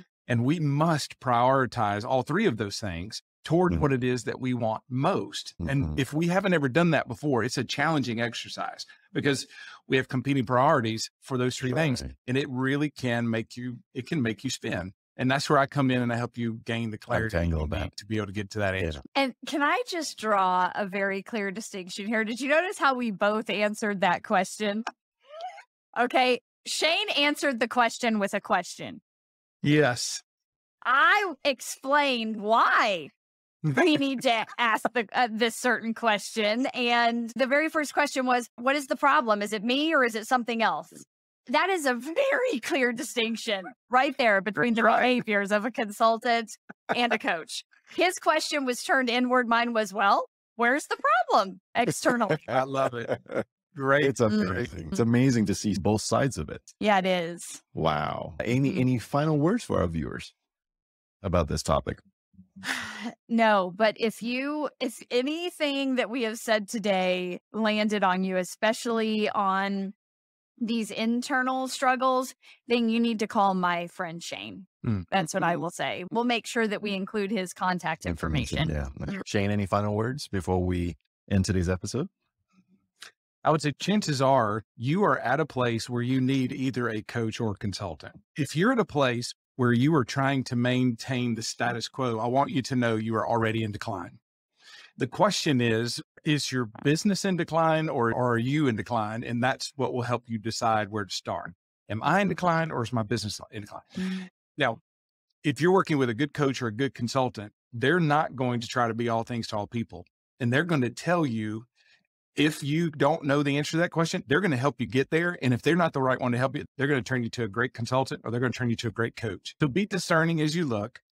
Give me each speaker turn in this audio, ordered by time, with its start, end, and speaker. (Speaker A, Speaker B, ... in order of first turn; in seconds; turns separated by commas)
Speaker A: 0.3-19.0, Speaker B: 5.6-6.0, Speaker B: 11.8-12.1, Speaker B: 17.1-17.9, Speaker C: 19.1-24.8, Speaker C: 25.9-29.0, Speaker A: 29.6-30.2, Speaker C: 30.8-33.1, Speaker C: 33.8-52.6, Speaker A: 52.5-53.2, Speaker B: 53.1-53.4, Speaker A: 53.7-54.6, Speaker B: 54.0-56.6, Speaker C: 54.3-55.0, Speaker C: 56.8-57.6, Speaker B: 57.8-60.3, Speaker B: 61.2-62.0, Speaker C: 62.6-69.9, Speaker C: 70.6-78.7, Speaker B: 78.0-82.1, Speaker A: 83.4-94.2, Speaker A: 95.0-104.8, Speaker A: 105.4-111.7, Speaker A: 112.3-121.0